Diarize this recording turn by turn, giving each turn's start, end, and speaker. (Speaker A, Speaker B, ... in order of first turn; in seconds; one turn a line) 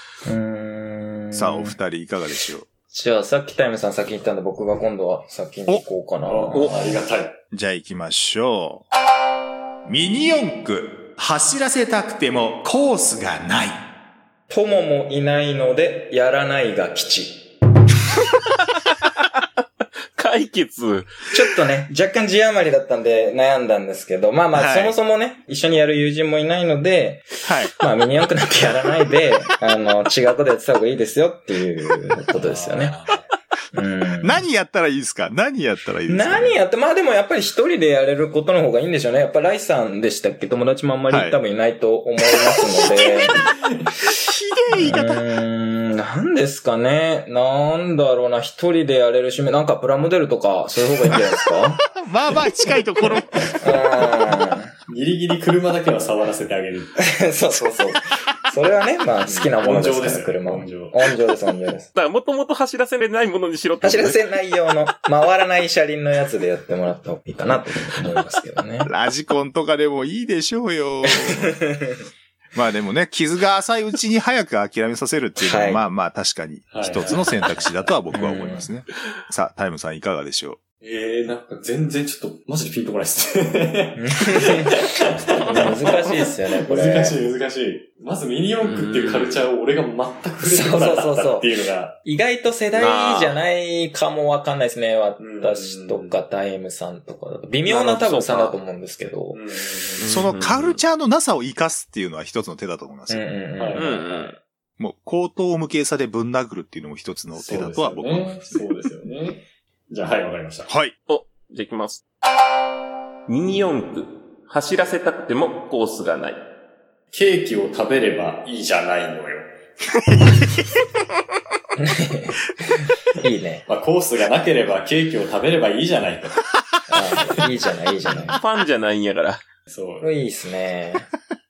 Speaker A: 0.2-1.8
Speaker B: 1.3-2.7
Speaker A: 2.9-7.0
Speaker C: 6.3-7.4
Speaker B: 7.5-8.8
Speaker B: 9.9-13.8
Speaker A: 14.5-17.4
Speaker D: 20.2-21.1
Speaker A: 21.3-33.0
Speaker B: 24.6-24.9
Speaker B: 27.4-27.7
Speaker C: 32.3-33.3
Speaker A: 33.7-34.5
Speaker B: 34.2-36.6
Speaker A: 36.1-43.4
Speaker B: 41.1-41.4
Speaker B: 43.0-43.3
Speaker C: 43.5-43.9
Speaker B: 44.1-45.2
Speaker A: 44.7-51.8
Speaker B: 51.9-53.5
Speaker A: 53.6-54.7
Speaker C: 54.9-57.1
Speaker A: 57.0-61.9
Speaker C: 59.3-61.1
Speaker D: 62.0-64.2
Speaker A: 63.8-68.9
Speaker B: 68.8-71.6
Speaker A: 71.1-71.9
Speaker B: 72.5-80.6
Speaker A: 75.4-75.8
Speaker C: 76.7-77.7
Speaker A: 78.1-78.7
Speaker C: 80.8-92.0
Speaker A: 84.0-84.8
Speaker A: 85.5-87.2
Speaker D: 88.6-89.4
Speaker A: 90.4-91.5
Speaker A: 92.0-99.4
Speaker D: 92.8-93.4
Speaker C: 95.2-96.2
Speaker C: 97.7-98.1
Speaker D: 97.9-98.5
Speaker C: 99.3-100.2
Speaker D: 100.0-100.8
Speaker B: 100.1-103.2
Speaker A: 103.1-104.2
Speaker C: 103.6-104.4
Speaker D: 103.8-104.3
Speaker B: 104.8-108.6
Speaker C: 107.3-110.7
Speaker B: 110.7-111.0
Speaker D: 111.1-112.0
Speaker D: 113.3-116.4
Speaker C: 117.1-119.5
Speaker A: 121.8-122.4
Speaker A: 123.1-123.7
Speaker C: 123.7-127.5
Speaker A: 126.9-128.4
Speaker C: 128.0-128.4
Speaker D: 128.3-129.4
Speaker C: 129.7-130.1
Speaker A: 130.0-131.1